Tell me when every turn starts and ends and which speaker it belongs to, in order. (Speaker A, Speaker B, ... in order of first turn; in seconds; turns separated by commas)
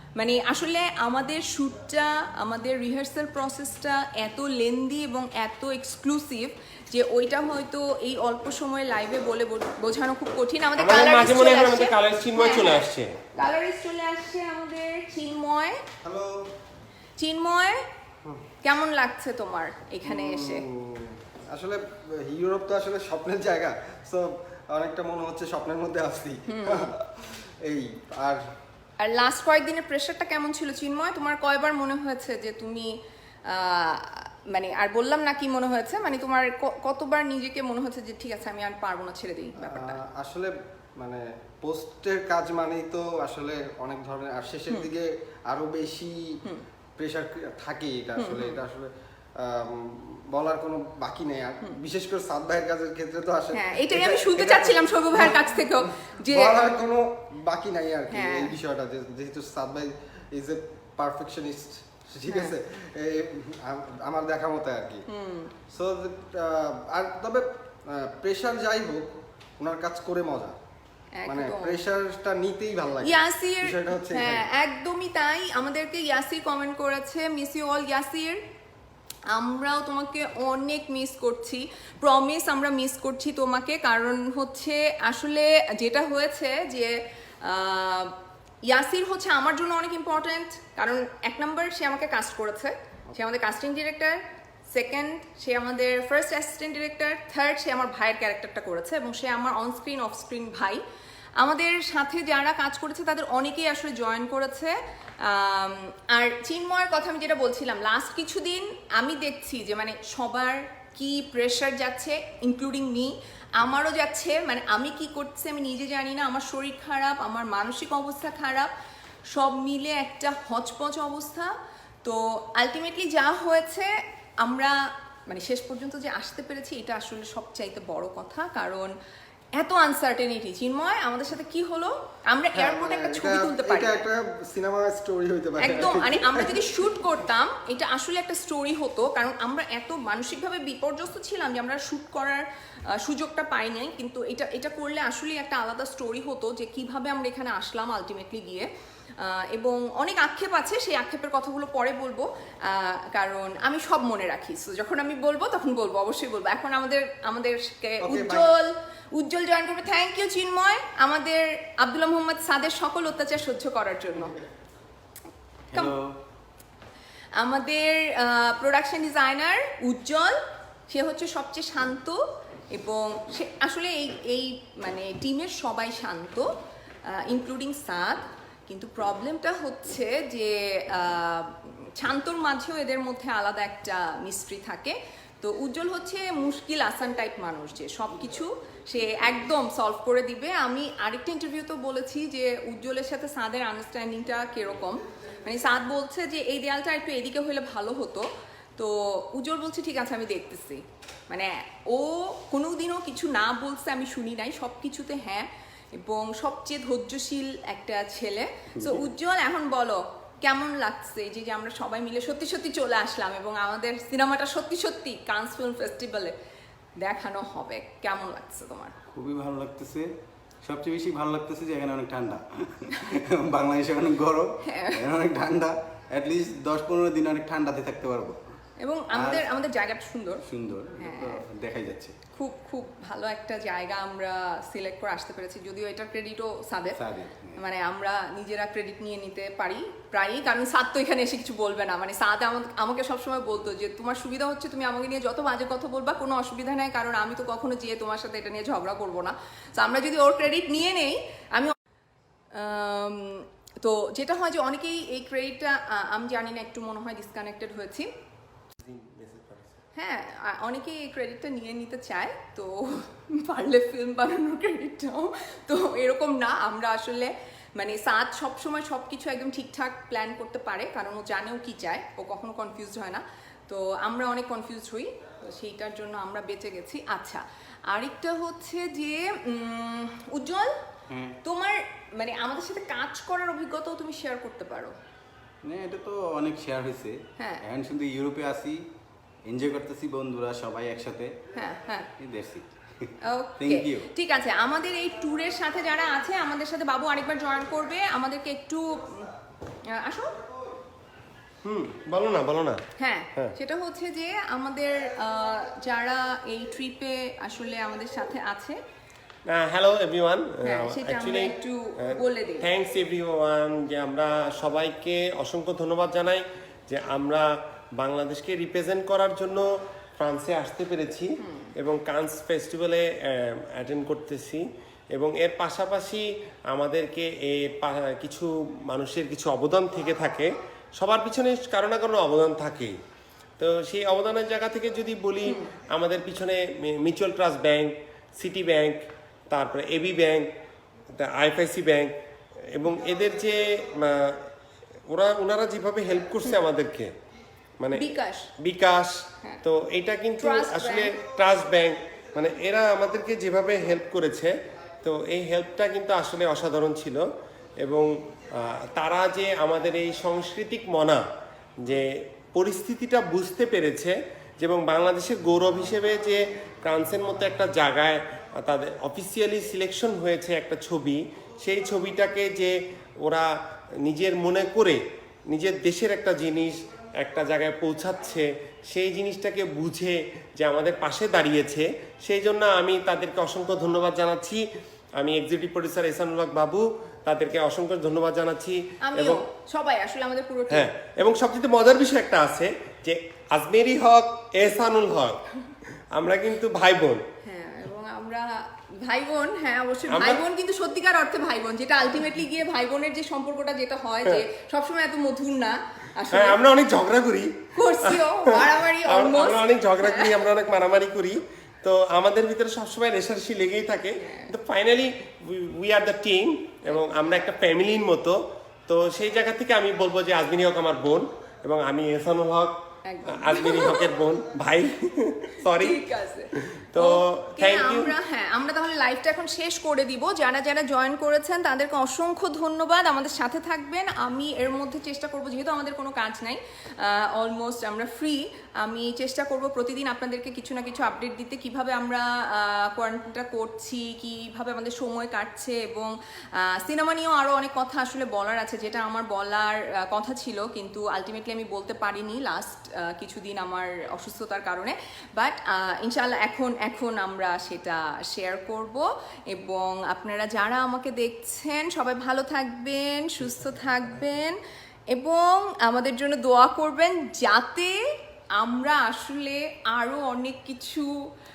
Speaker A: 0.2-15.8, Speaker B: 10.8-13.1, Speaker C: 16.0-16.4, Speaker A: 17.2-17.8, Speaker A: 18.6-20.6, Speaker C: 20.0-28.4, Speaker A: 26.5-26.9, Speaker A: 29.0-32.9, Speaker A: 33.5-40.0, Speaker C: 39.6-46.4, Speaker C: 47.0-55.4, Speaker A: 48.2-48.6, Speaker A: 53.5-56.7, Speaker C: 56.3-65.0, Speaker A: 58.1-58.5, Speaker A: 62.3-62.5, Speaker A: 65.1-65.5, Speaker C: 65.7-70.5, Speaker A: 71.2-71.8, Speaker C: 71.2-74.5, Speaker A: 73.0-78.4, Speaker A: 79.3-100.8, Speaker A: 101.4-118.7, Speaker A: 119.3-121.5, Speaker A: 122.0-128.9, Speaker A: 129.6-134.0, Speaker C: 132.5-136.6, Speaker A: 135.6-164.3, Speaker C: 158.0-158.5, Speaker D: 165.7-166.2, Speaker A: 167.3-176.5, Speaker A: 177.1-216.3, Speaker A: 217.0-218.9, Speaker D: 219.1-220.1, Speaker D: 220.6-228.5, Speaker A: 224.6-225.1, Speaker A: 228.8-230.4, Speaker D: 229.1-229.4, Speaker D: 230.4-232.2, Speaker A: 231.0-231.4, Speaker A: 232.3-237.0, Speaker D: 236.9-237.6, Speaker A: 237.5-251.7, Speaker A: 252.5-258.1, Speaker B: 258.8-259.8, Speaker A: 259.9-280.7, Speaker D: 281.1-281.4, Speaker A: 281.4-284.9, Speaker D: 285.6-288.9, Speaker A: 287.4-287.6, Speaker D: 289.4-291.4, Speaker A: 291.5-292.1, Speaker D: 292.1-294.1, Speaker A: 293.2-299.3, Speaker A: 299.9-300.3, Speaker B: 301.6-302.8, Speaker A: 303.0-308.8, Speaker B: 309.5-311.5, Speaker A: 310.6-312.7, Speaker B: 312.6-319.6, Speaker B: 320.2-332.9, Speaker A: 321.4-321.7, Speaker B: 333.6-340.5, Speaker B: 341.1-342.1, Speaker B: 342.7-344.5, Speaker B: 345.1-347.1, Speaker B: 347.8-348.1, Speaker A: 347.9-348.5, Speaker B: 348.6-357.2, Speaker A: 350.4-351.2, Speaker B: 357.8-361.2, Speaker B: 361.8-373.5, Speaker B: 374.0-384.6, Speaker B: 385.2-389.4, Speaker A: 389.0-390.9, Speaker B: 390.7-395.4, Speaker B: 396.1-397.2, Speaker A: 397.4-406.6, Speaker B: 400.1-400.4, Speaker B: 406.3-426.0, Speaker A: 407.8-410.4, Speaker A: 414.2-414.5, Speaker A: 423.0-424.1, Speaker A: 425.8-464.6, Speaker B: 426.6-428.1, Speaker A: 465.1-467.9, Speaker A: 468.6-471.1